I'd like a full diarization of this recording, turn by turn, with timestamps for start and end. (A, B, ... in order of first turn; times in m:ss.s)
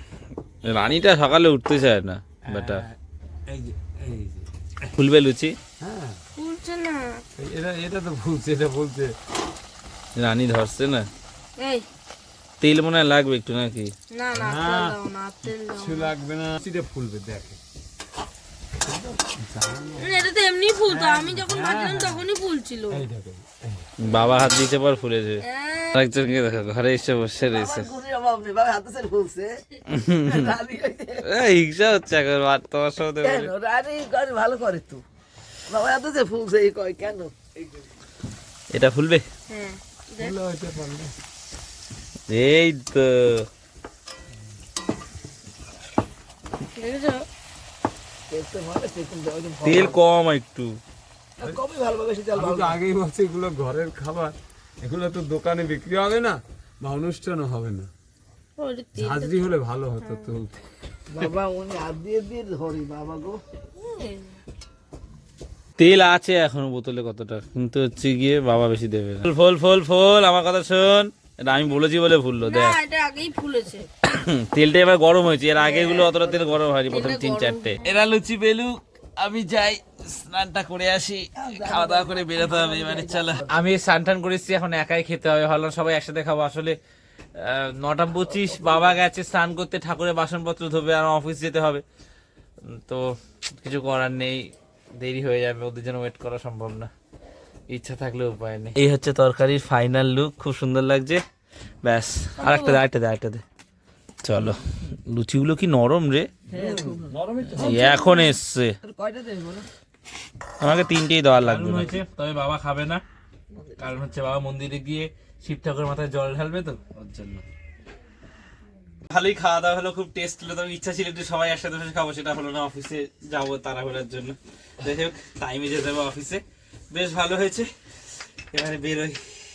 0:00.6-0:02.8 A
0:02.4-0:02.9 B
0:03.5-0:04.7 B
0:04.9-0:05.5 A
0:05.8-0:06.2 B
0:06.4-0:07.2 C
0:07.4-0:09.1 B
0:10.2-0:11.1 A
0:11.6-0:11.8 C
0:12.6-0:13.9 A
0:14.1-0:16.1 C
0:14.3-0:17.6 B
0:18.8-0:20.3 B
0:20.0-0:23.0 C
0:20.9-0:22.3 B
0:22.9-0:24.5 B
0:24.0-0:27.9 A
0:25.4-0:26.1 C
0:27.4-0:31.2 D
0:29.9-0:30.3 A
0:31.2-0:33.5 A
0:33.2-0:35.0 D
0:35.7-0:37.8 D
0:38.7-0:39.2 A
0:39.5-0:40.3 C
0:40.2-0:41.1 B
0:42.3-0:43.4 A
0:46.8-0:47.2 C
0:48.3-0:50.0 D
0:49.6-0:50.8 A
0:51.4-0:52.8 D
0:52.3-0:57.9 B
0:58.6-0:59.4 C
0:59.0-1:00.6 B
1:00.0-1:00.3 C
1:01.1-1:03.4 D
1:03.8-1:04.3 C
1:05.8-1:12.8 A
1:12.4-1:13.9 C
1:14.0-1:26.8 A
1:15.6-1:16.7 D
1:16.9-1:17.8 C
1:21.4-1:23.6 D
1:27.4-1:31.8 A
1:28.3-1:28.9 D
1:32.7-1:34.4 A
1:35.0-1:36.9 A
1:37.7-1:41.2 A
1:41.8-1:43.4 A
1:42.4-1:42.8 C
1:44.2-1:46.3 A
1:46.5-1:47.2 D
1:46.5-1:47.9 B
1:47.5-1:48.7 A
1:47.6-1:48.3 C
1:48.8-1:49.7 D
1:50.6-1:53.0 A
1:53.5-1:54.0 D
1:53.8-1:57.4 A
1:59.1-2:07.7 A
2:08.5-2:09.2 A